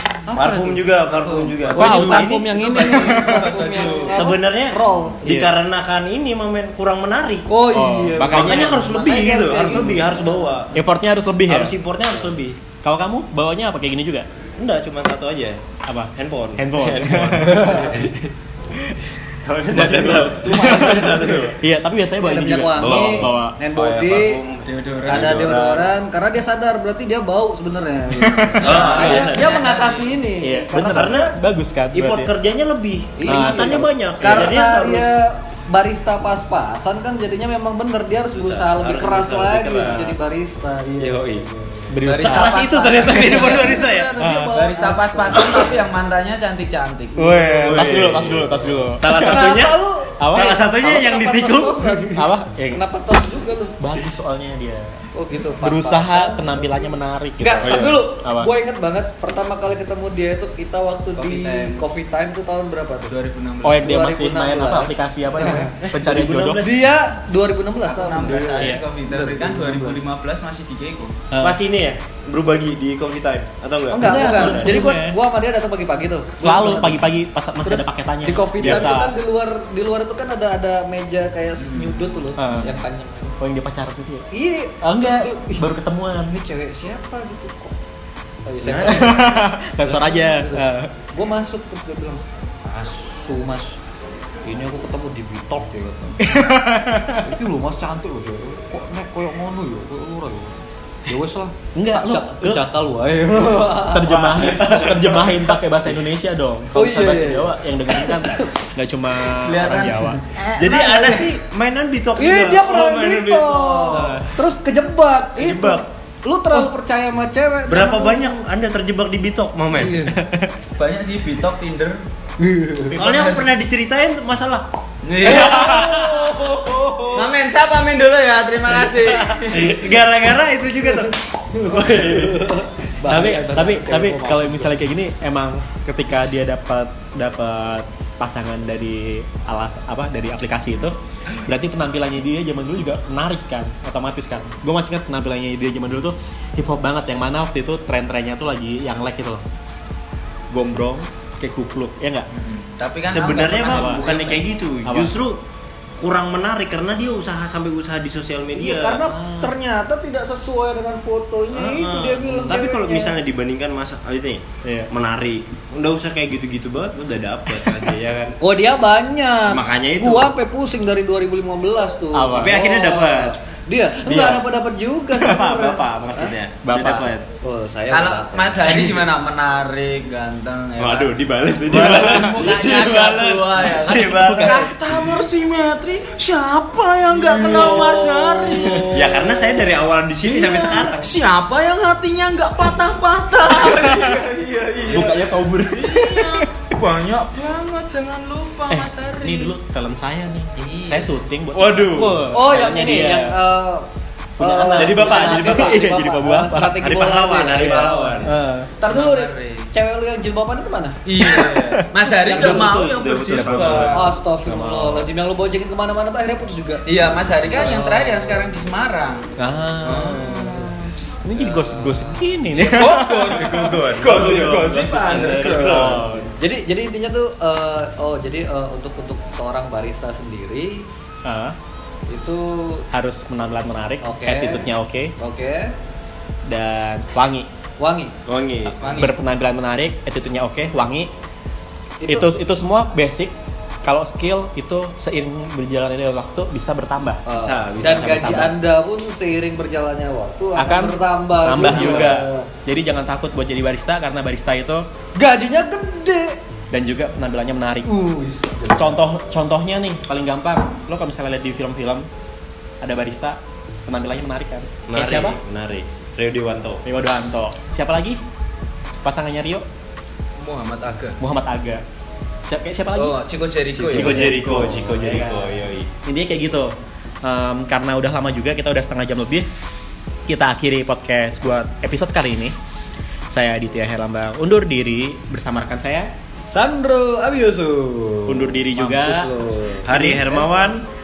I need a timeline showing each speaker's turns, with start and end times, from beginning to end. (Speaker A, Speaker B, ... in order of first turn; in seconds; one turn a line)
Speaker A: 0.3-0.9
Speaker B: 0.3-2.7
Speaker C: 1.0-1.9
Speaker A: 1.7-5.2
Speaker D: 1.8-3.5
Speaker C: 2.5-4.2
Speaker B: 4.1-7.5
Speaker D: 5.2-5.5
Speaker A: 7.5-10.6
Speaker D: 7.7-8.8
Speaker B: 8.2-10.8
Speaker C: 8.8-9.8
Speaker D: 10.7-11.7
Speaker B: 11.5-12.6
Speaker D: 12.8-14.3
Speaker B: 14.6-15.6
Speaker D: 15.9-18.0
Speaker B: 16.1-18.3
Speaker A: 17.4-18.1
Speaker B: 19.4-21.6
Speaker D: 19.7-23.6
Speaker A: 20.3-21.6
Speaker A: 22.2-24.4
Speaker B: 22.8-25.9
Speaker C: 24.6-25.4
Speaker A: 25.1-31.3
Speaker D: 28.2-29.5
Speaker B: 28.6-29.9
Speaker C: 28.6-30.1
Speaker D: 30.4-32.3
Speaker B: 30.9-31.4
Speaker B: 31.9-35.1
Speaker A: 33.2-42.0
Speaker D: 33.2-34.6
Speaker B: 38.3-40.2
Speaker B: 41.0-41.5
Speaker D: 41.9-42.6
Speaker C: 42.0-43.9
Speaker B: 42.2-44.2
Speaker A: 42.5-45.9
Speaker D: 44.2-44.7
Speaker C: 44.5-47.7
Speaker D: 47.1-49.3
Speaker B: 47.4-52.1
Speaker A: 47.7-53.8
Speaker D: 50.2-50.5
Speaker D: 52.1-52.8
Speaker D: 53.8-55.0
Speaker A: 55.1-63.1
Speaker D: 55.6-58.5
Speaker B: 57.6-58.0
Speaker C: 61.2-61.8
Speaker C: 63.1-63.9
Speaker D: 63.6-66.6
Speaker A: 63.8-65.8
Speaker B: 65.8-66.8
Speaker A: 66.5-70.0
Speaker C: 67.8-71.2
Speaker D: 68.5-68.8
Speaker D: 71.3-71.6
Speaker B: 71.4-75.0
Speaker A: 73.9-83.4
Speaker D: 74.0-75.2
Speaker D: 76.4-79.1
Speaker B: 78.6-78.9
Speaker C: 81.6-82.3
Speaker D: 82.4-82.8
Speaker D: 83.4-84.3
Speaker A: 84.3-85.7
Speaker D: 84.8-86.3
Speaker A: 86.3-87.8
Speaker A: 88.5-93.8
Speaker D: 88.6-90.9
Speaker A: 94.4-96.6
Speaker D: 96.2-97.2
Speaker A: 97.1-105.3
Speaker D: 101.7-102.6
Speaker D: 103.8-110.2
Speaker B: 104.0-105.5
Speaker A: 106.7-108.7
Speaker C: 109.3-111.1
Speaker A: 110.4-111.3
Speaker B: 110.5-114.2
Speaker A: 112.2-118.4
Speaker B: 115.3-115.8
Speaker B: 117.7-120.1
Speaker A: 119.7-120.2
Speaker D: 120.1-120.5
Speaker C: 120.8-122.0
Speaker A: 122.4-123.0
Speaker B: 122.9-124.7
Speaker C: 123.0-123.5
Speaker C: 125.0-125.9
Speaker B: 125.2-126.6
Speaker A: 125.2-127.3
Speaker C: 127.1-129.9
Speaker B: 129.3-132.6
Speaker A: 130.8-134.8
Speaker D: 133.0-149.4
Speaker D: 150.5-152.3
Speaker C: 152.3-154.4
Speaker B: 153.1-155.4
Speaker D: 153.7-155.1
Speaker B: 156.0-159.0
Speaker A: 158.5-163.1
Speaker D: 159.1-159.5
Speaker B: 161.5-168.4
Speaker D: 164.6-164.9
Speaker A: 168.4-176.3
Speaker B: 169.5-170.3
Speaker D: 172.1-172.6
Speaker B: 172.3-173.3
Speaker D: 174.0-174.4
Speaker B: 175.1-177.3
Speaker D: 176.6-177.1
Speaker A: 177.4-178.8
Speaker C: 177.9-189.3
Speaker B: 180.8-184.9
Speaker D: 181.7-182.2
Speaker A: 187.2-189.3
Speaker B: 187.4-187.9
Speaker B: 188.9-191.1
Speaker A: 190.2-190.9
Speaker C: 191.0-199.5
Speaker D: 193.6-194.2
Speaker D: 194.8-196.4
Speaker D: 198.7-203.4
Speaker C: 200.6-201.1
Speaker B: 201.5-202.3
Speaker A: 202.3-203.9
Speaker D: 204.4-206.8
Speaker A: 204.4-208.2
Speaker B: 204.7-205.9
Speaker B: 206.8-208.3
Speaker D: 208.2-208.7
Speaker A: 208.8-211.0
Speaker C: 208.8-209.7
Speaker C: 211.1-214.1
Speaker D: 211.2-212.1
Speaker A: 212.3-212.7
Speaker B: 212.3-214.1
Speaker D: 213.3-215.1
Speaker A: 213.9-218.5
Speaker C: 216.8-219.3
Speaker D: 219.4-223.1
Speaker C: 219.8-220.7
Speaker A: 221.4-221.8
Speaker C: 221.8-225.9
Speaker B: 222.9-226.1
Speaker D: 225.4-226.3
Speaker A: 225.9-230.8
Speaker D: 231.2-231.6
Speaker A: 232.1-232.8
Speaker D: 232.9-235.1
Speaker A: 234.0-235.7
Speaker D: 236.5-237.5
Speaker A: 237.8-238.2
Speaker B: 238.2-238.8
Speaker C: 238.8-239.2
Speaker D: 238.8-241.1
Speaker A: 242.0-242.3
Speaker D: 242.1-247.2
Speaker A: 247.2-252.5
Speaker B: 247.3-248.5
Speaker D: 247.8-248.5
Speaker D: 250.6-254.9
Speaker B: 251.6-252.2
Speaker A: 255.1-256.4
Speaker D: 256.7-257.9
Speaker A: 257.9-259.0
Speaker D: 258.8-262.1
Speaker D: 262.8-265.4
Speaker B: 264.9-266.8
Speaker D: 266.8-268.2
Speaker D: 269.0-269.6
Speaker C: 270.4-271.2
Speaker D: 271.2-271.8
Speaker D: 272.4-273.1
Speaker C: 272.9-275.5
Speaker B: 273.8-275.9
Speaker D: 273.9-275.0
Speaker D: 276.0-279.5
Speaker D: 280.3-282.5
Speaker D: 283.3-286.1
Speaker A: 286.5-290.6
Speaker D: 288.3-289.3
Speaker B: 289.8-290.8